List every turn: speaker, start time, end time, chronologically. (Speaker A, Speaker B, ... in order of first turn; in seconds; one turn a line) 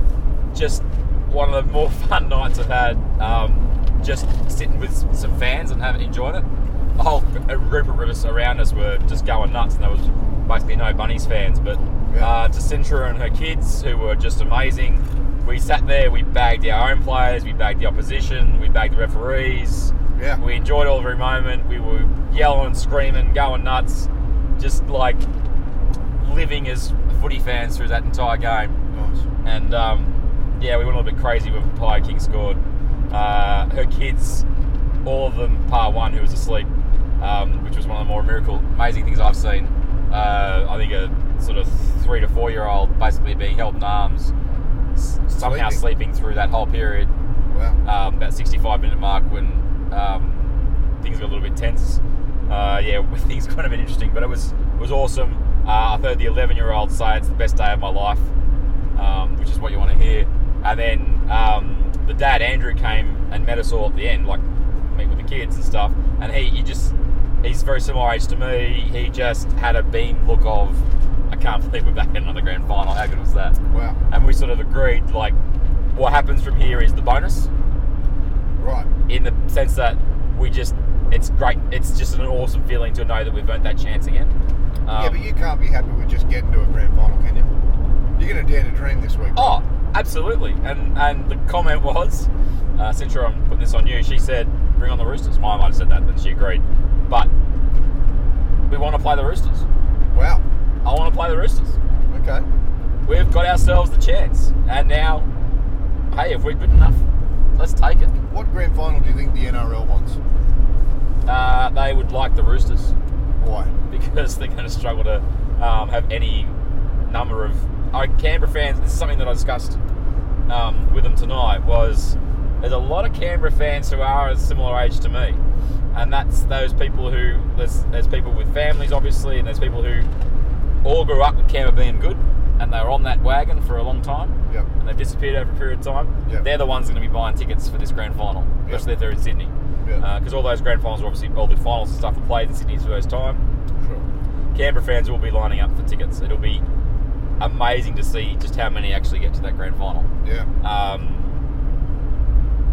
Speaker A: 0.5-25.3
Speaker B: 12.1-12.3
Speaker B: 20.1-20.4
Speaker A: 26.2-28.8
Speaker B: 28.9-29.2
Speaker A: 29.4-34.4
Speaker A: 35.0-36.7
Speaker A: 37.2-44.3
Speaker A: 45.0-47.1
Speaker B: 45.4-45.8
Speaker B: 47.5-47.8
Speaker A: 47.8-58.3
Speaker A: 59.0-73.6
Speaker B: 73.7-74.0
Speaker A: 74.1-75.4
Speaker A: 75.9-77.5
Speaker B: 78.6-78.9
Speaker A: 79.1-84.3
Speaker A: 84.9-85.2
Speaker B: 85.0-87.5
Speaker B: 88.2-89.6
Speaker A: 89.3-97.3
Speaker A: 98.7-99.7
Speaker B: 100.1-100.4
Speaker A: 100.8-101.8
Speaker B: 102.1-102.5
Speaker A: 103.0-105.3
Speaker A: 106.1-107.0
Speaker A: 107.6-108.1
Speaker B: 108.3-110.2
Speaker A: 111.3-112.9
Speaker B: 113.4-113.7
Speaker A: 113.9-116.6
Speaker A: 117.1-119.8
Speaker A: 120.5-125.4
Speaker A: 125.9-130.1
Speaker A: 130.8-143.4
Speaker B: 143.8-144.1
Speaker A: 144.5-146.7
Speaker A: 147.4-150.1
Speaker B: 150.2-150.5
Speaker A: 150.6-151.3